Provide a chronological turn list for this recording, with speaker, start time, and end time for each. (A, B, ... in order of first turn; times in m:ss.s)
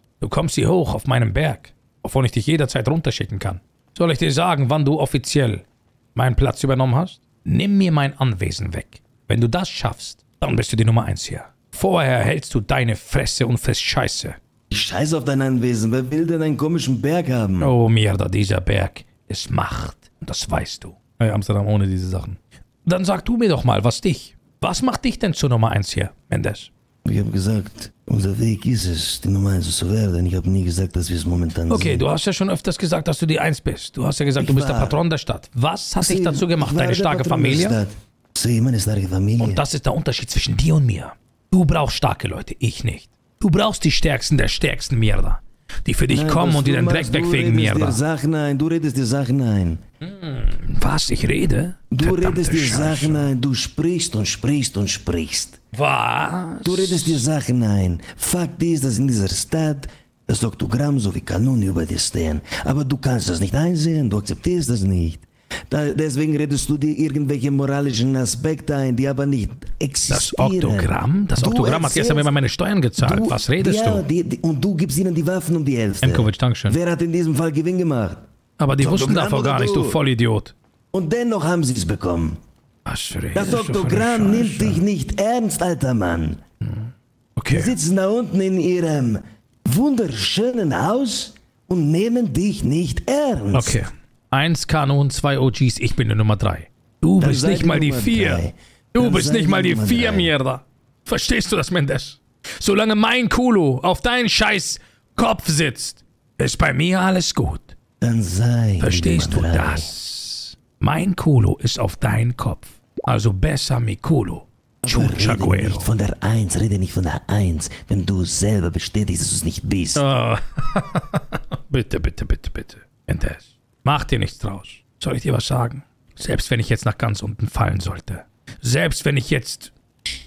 0:00.2-0:05.6 A
0:06.2-0:14.4 A
0:14.7-0:17.7 B
0:17.6-0:26.7 A
0:27.0-0:32.0 B
0:31.7-0:37.8 A
0:34.4-0:35.0 B
0:36.0-0:39.6 B
0:39.4-0:48.0 A
0:46.1-0:49.8 B
0:50.0-0:53.3 A
0:51.9-0:55.6 B
0:55.7-0:57.2 A
0:56.6-1:12.3 B
1:10.1-1:14.0 A
1:13.0-1:18.2 B
1:16.0-1:16.8 A
1:18.6-1:20.5 A
1:18.8-1:20.0 B
1:20.9-1:22.4 B
1:22.8-1:24.8 A
1:23.3-1:26.4 B
1:26.6-1:27.8 A
1:27.5-1:33.8 B
1:33.5-1:38.4 A
1:37.2-1:40.3 B
1:38.9-1:47.7 A
1:48.0-1:49.9 B
1:48.8-1:55.9 A
1:54.8-2:00.0 B
2:00.0-2:09.7 A